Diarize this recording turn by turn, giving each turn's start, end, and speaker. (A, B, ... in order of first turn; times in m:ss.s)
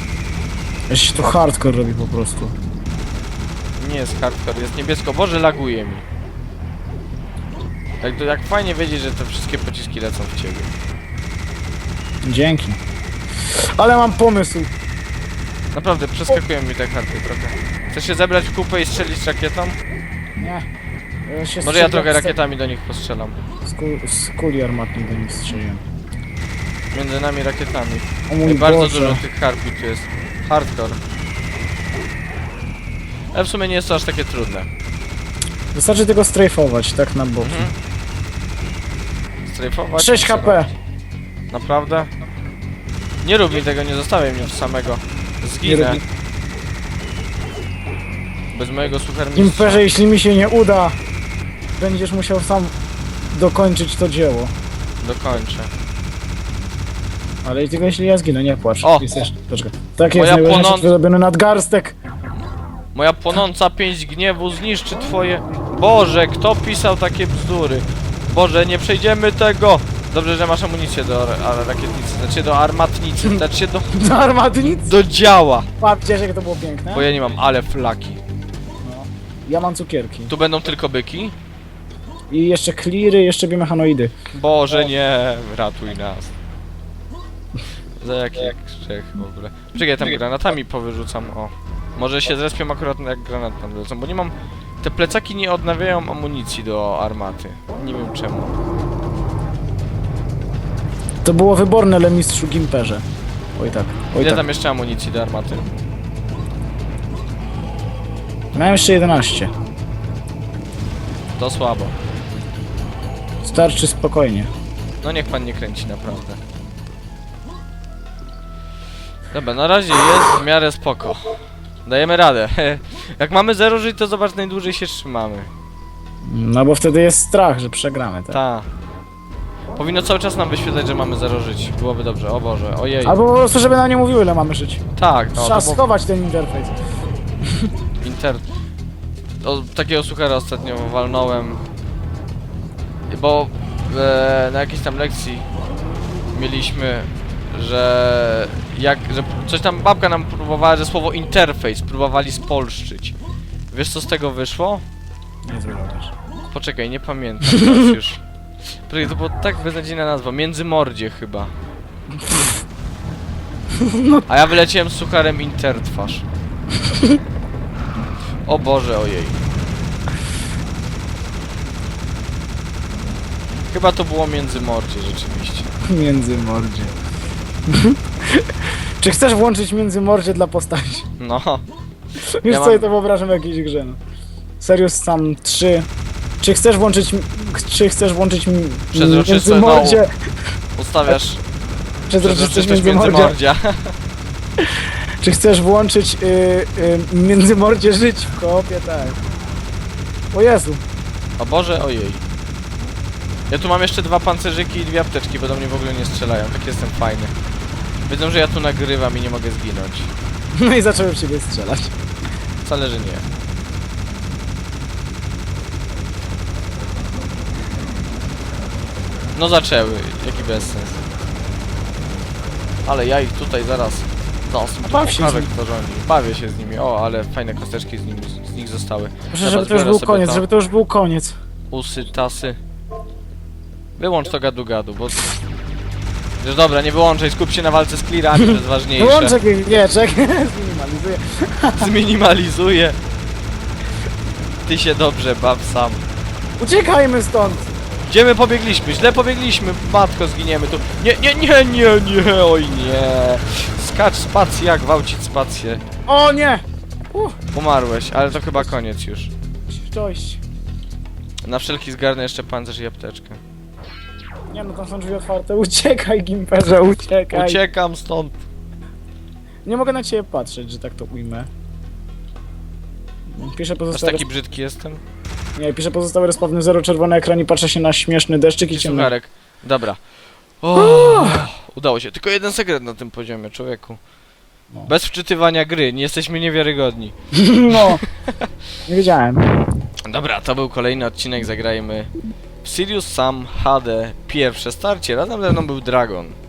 0:00.9-0:02.6 A
0:03.8-0:06.0 B
0:08.0-0:10.7 B
0:12.2-0:12.8 A
0:13.5-0:14.7 A
0:15.7-0:19.8 B
0:20.4-0:20.6 A
0:21.3-0:22.4 A
0:21.6-0:23.4 B
0:23.6-0:25.8 A
0:26.9-0:31.0 B
0:28.3-0:29.2 A
0:33.3-0:34.7 B
0:35.7-0:37.7 A
0:37.4-0:37.8 B
0:39.5-0:40.6 B
0:40.0-0:40.7 A
0:41.5-0:42.1 B
0:43.2-0:46.0 B
0:45.6-0:46.0 A
0:48.5-0:49.8 B
0:49.4-0:51.0 A
0:51.8-0:52.7 A
0:53.3-0:54.5 A
0:55.0-0:55.7 B
0:57.4-1:02.0 A
1:00.1-1:00.9 B
1:02.9-1:13.9 B
1:13.9-1:15.0 A
1:14.9-1:15.7 B
1:15.8-1:17.1 A
1:16.9-1:18.2 B
1:18.8-1:20.3 A
1:20.3-1:21.4 B
1:22.3-1:24.1 A
1:24.3-1:26.3 B
1:28.0-1:38.6 B
1:41.2-1:43.0 A
1:43.6-1:44.5 A
1:44.2-1:45.7 B
1:48.5-1:49.5 A
1:51.4-1:52.0 B
1:53.4-1:54.5 A
1:55.0-1:56.4 B
1:59.3-2:05.5 B
2:06.2-2:08.4 A
2:08.3-2:08.7 B
2:09.8-2:13.2 B
2:13.0-2:14.8 A
2:15.0-2:15.8 B
2:15.3-2:16.8 A
2:18.0-2:18.4 B
2:19.4-2:21.6 B
2:23.1-2:25.5 B
2:26.3-2:33.2 B
2:33.7-2:34.8 B
2:35.4-2:36.1 A
2:36.5-2:38.2 B
2:38.9-2:41.5 B
2:43.8-2:44.2 A
2:44.3-2:46.3 B
2:46.9-2:47.2 A
2:48.5-2:49.4 B
2:53.7-2:55.7 B
2:55.9-2:57.0 A
2:57.7-3:01.1 A
3:01.2-3:01.6 B
3:02.4-3:04.0 A
3:02.5-3:02.9 B
3:04.6-3:05.9 A
3:06.4-3:10.1 A
3:08.9-3:10.0 B
3:10.8-3:11.4 B
3:12.1-3:13.4 A
3:12.2-3:14.0 B
3:15.2-3:19.2 A
3:20.3-3:20.8 A
3:21.4-3:22.2 B
3:23.5-3:27.3 B
3:28.1-3:30.1 B
3:30.6-3:31.9 A
3:32.6-3:33.3 B
3:39.4-3:41.0 B
3:42.8-3:50.5 B
3:44.8-3:45.5 A
3:49.3-3:51.4 A
3:51.7-3:52.6 B
3:54.0-3:55.4 B
3:56.4-3:59.4 B
3:58.4-4:01.9 A
4:01.8-4:03.0 B
4:04.6-4:06.0 B
4:06.6-4:07.7 A
4:08.0-4:15.8 B
4:16.1-4:17.4 A
4:17.5-4:19.3 B
4:19.7-4:20.4 A
4:21.4-4:23.4 B
4:24.5-4:27.6 A
4:27.3-4:28.4 B
4:29.6-4:31.5 A
4:33.3-4:34.2 A
4:33.9-4:35.0 B
4:35.6-4:39.1 A
4:38.7-4:40.0 B
4:40.6-4:44.0 B
4:40.8-4:41.5 A
4:44.9-4:47.1 B
4:47.3-4:48.0 A
4:47.7-4:48.3 B
4:48.9-4:49.5 A
4:50.1-4:52.1 B
4:52.6-4:56.4 B